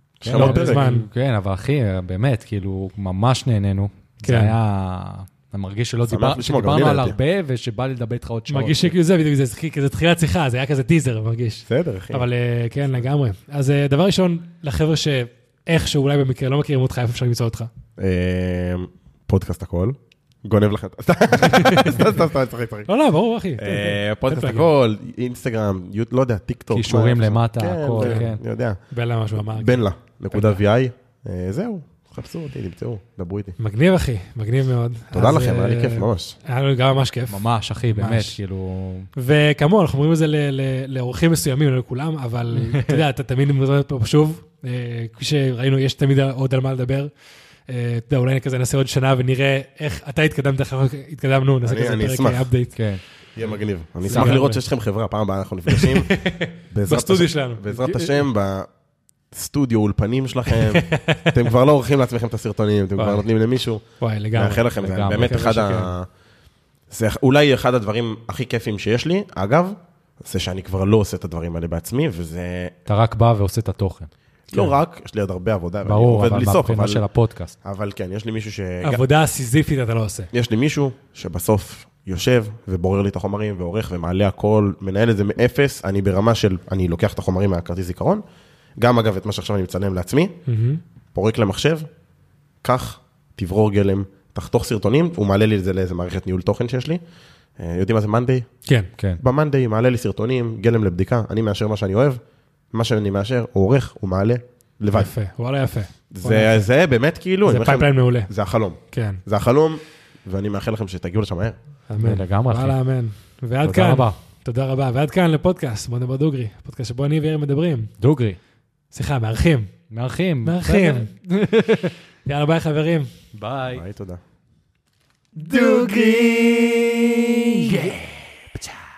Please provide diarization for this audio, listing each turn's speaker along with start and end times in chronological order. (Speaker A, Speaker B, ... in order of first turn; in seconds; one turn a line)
Speaker A: 0.2-1.0
Speaker B: 0.2-8.9
Speaker C: 0.3-1.1
Speaker C: 4.2-4.5
Speaker A: 6.1-7.2
Speaker C: 8.5-17.7
Speaker A: 11.7-12.3
Speaker A: 18.0-22.9
Speaker C: 21.4-22.0
Speaker C: 22.9-24.7
Speaker A: 23.6-28.8
Speaker B: 26.7-28.4
Speaker C: 28.0-28.2
Speaker C: 28.9-30.6
Speaker A: 29.3-33.5
Speaker C: 33.6-38.4
Speaker A: 35.1-36.4
Speaker B: 37.3-39.1
Speaker C: 39.1-47.1
Speaker B: 42.5-43.0
Speaker C: 47.7-52.8
Speaker A: 51.6-52.5
Speaker B: 52.8-53.0
Speaker A: 53.3-58.7
Speaker C: 54.0-54.6
Speaker B: 54.1-54.4
Speaker C: 55.7-58.1
Speaker A: 59.3-63.8
Speaker C: 60.5-61.3
Speaker C: 63.0-63.2
Speaker C: 64.0-65.9
Speaker A: 64.3-66.1
Speaker B: 64.8-65.6
Speaker A: 66.9-72.7
Speaker B: 72.8-74.7
Speaker A: 74.5-77.0
Speaker B: 75.8-77.5
Speaker A: 77.6-79.0
Speaker C: 78.8-80.3
Speaker A: 80.3-88.2
Speaker A: 88.8-90.3
Speaker C: 90.5-90.8
Speaker A: 91.1-91.9
Speaker A: 92.6-97.0
Speaker A: 97.6-98.5
Speaker A: 99.2-102.2
Speaker A: 102.7-105.1
Speaker C: 104.9-106.7
Speaker A: 106.1-111.6
Speaker C: 107.4-108.3
Speaker C: 108.9-109.2
Speaker C: 111.9-117.9
Speaker B: 112.0-112.8
Speaker B: 113.6-114.1
Speaker B: 118.0-118.4
Speaker C: 118.9-119.7
Speaker B: 119.9-121.9
Speaker C: 120.4-121.1
Speaker C: 122.2-123.1
Speaker B: 123.3-123.8
Speaker A: 123.7-124.2
Speaker B: 125.3-128.7